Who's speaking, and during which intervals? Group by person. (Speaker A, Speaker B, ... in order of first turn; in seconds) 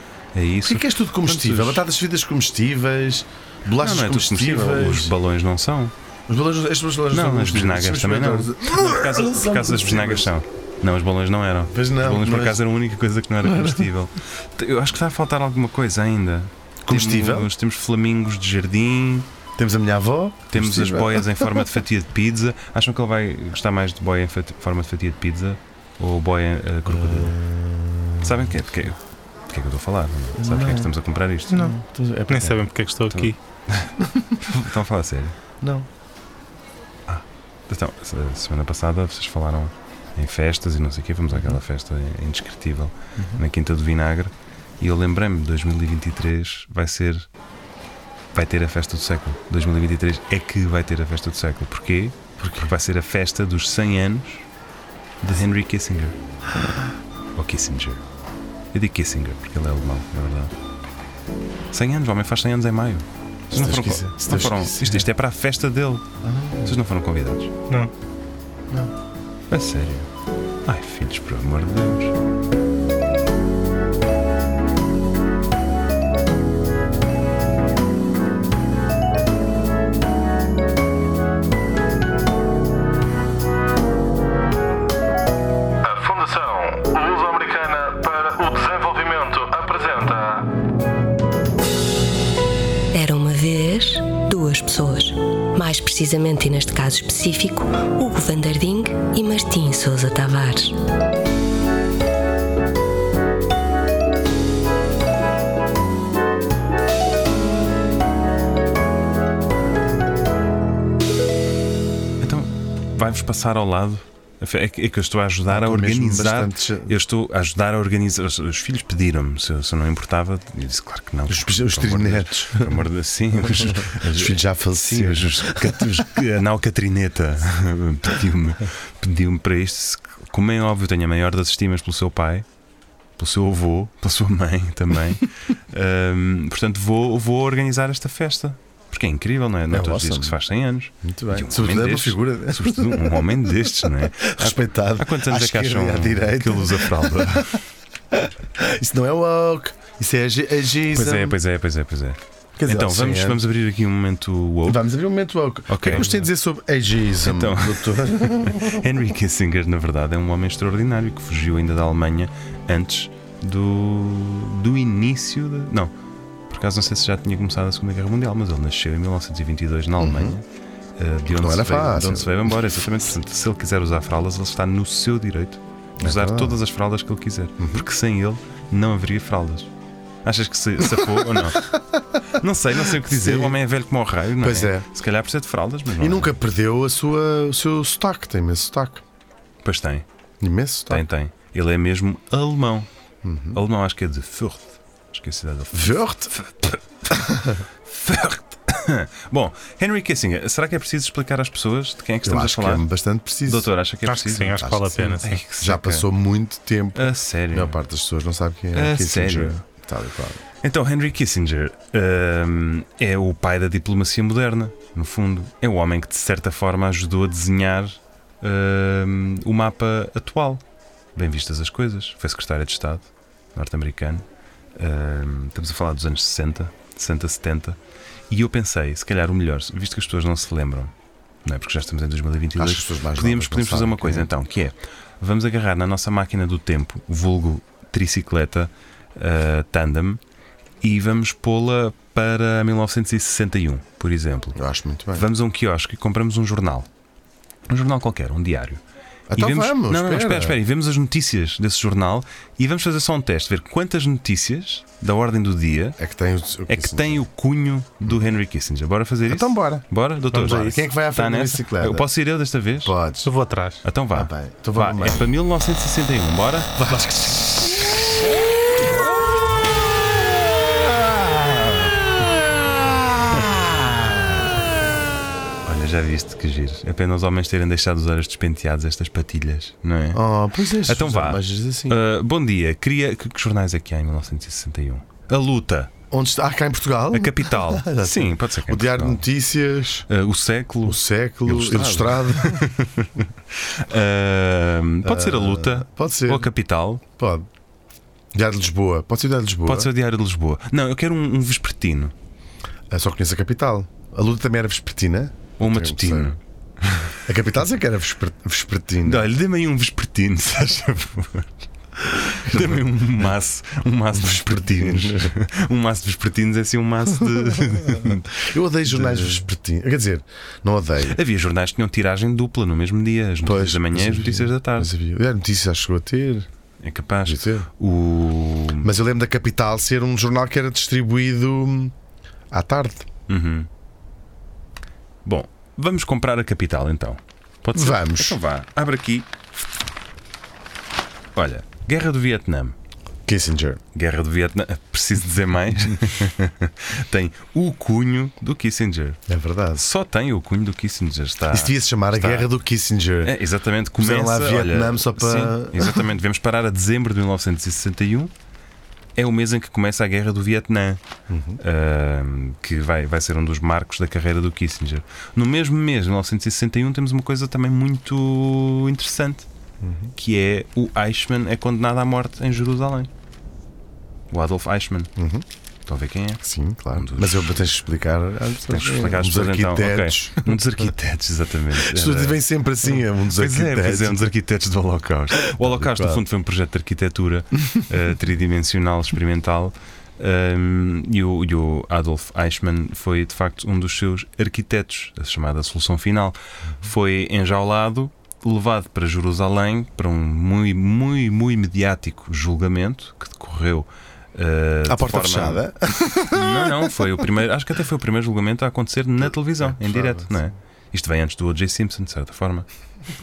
Speaker A: 0.3-1.8, 3.8-5.9, 7.1-19.3, 20.5-27.4, 28.2-31.6, 33.1-35.4, 37.1-47.3, 48.3-54.5, 55.2-56.1, 57.4-58.0, 58.7-60.5, 61.7-66.1, 66.6-67.5, 69.5-70.1, 70.6-72.1, 112.2-132.5, 133.2-147.6, 150.9-154.8, 155.7-156.2, 157.2-165.9, 166.5-170.4, 171.0-179.7, 180.2-181.7, 182.3-186.3, 189.6-190.1, 190.9-192.9, 193.5-202.8, 203.4-206.1, 206.9-207.8, 208.7-209.6, 210.6-220.6, 221.2-224.2, 224.8-227.8, 228.3-230.9, 231.4-240.2, 240.8-244.6, 245.1-246.9, 247.7-248.8, 249.3-256.0, 256.7-262.9, 263.8-267.0, 275.6-280.2, 280.8-285.9, 287.1-289.2, 290.1-297.0, 299.6-302.1, 305.6-307.1, 309.0-311.5, 312.1-318.4, 318.9-319.4, 321.0-324.9, 326.8-328.9, 333.3-333.7, 335.2-339.3, 341.3-342.8, 343.9-349.2, 349.7-352.5, 353.2-358.3, 359.1-361.0, 361.6-369.5, 370.1-373.1, 374.3-375.1, 375.9-377.7, 378.7-382.4, 383.3-405.6, 406.3-412.6
Speaker B: 0.6-5.2, 6.3-10.3, 11.7-12.6, 13.4-13.9, 16.8-17.5, 19.6-21.7, 26.9-28.6, 30.4-30.9, 31.5-32.6, 34.0-34.4, 35.6-35.9, 43.1-43.4, 52.4-52.7, 63.5-65.0, 66.2-66.8, 115.5-116.9, 121.3-122.8, 123.4-126.1, 139.7-140.4, 141.0-147.4, 148.1-151.4, 152.6-153.4, 154.7-158.9, 170.0-170.3, 171.3-172.5, 176.0-176.6, 177.6-177.8, 180.9-183.6, 184.4-184.9, 186.0-189.0, 190.4-191.1, 193.2-193.6, 195.7-196.3, 197.1-197.6, 202.2-203.7, 204.5-210.4, 232.6-234.3, 244.6-245.3, 249.3-250.6, 256.0-257.2, 259.3-262.1, 262.8-263.3, 264.1-265.3, 266.8-268.1, 273.4-273.8, 280.1-282.0, 286.1-290.1, 290.8-292.6, 295.0-296.5, 297.1-297.5, 298.3-299.9, 302.9-306.3, 307.1-309.3, 312.4-313.2, 314.1-315.4, 317.7-321.2, 323.4-326.5, 327.2-327.7, 328.8-331.9, 332.5-333.1, 337.7-338.4, 343.2-343.8, 349.3-349.8, 351.5-353.4, 354.0-356.1, 361.3-361.6, 369.8-370.1, 375.2-375.4, 376.4-380.6, 381.7-384.3, 385.3-386.2, 404.9-406.9, 409.6-410.4
Speaker C: 31.5-31.7, 32.3-33.4, 204.0-205.4, 260.3-260.8, 263.2-263.8
Speaker D: 85.8-90.5
Speaker E: 92.9-100.8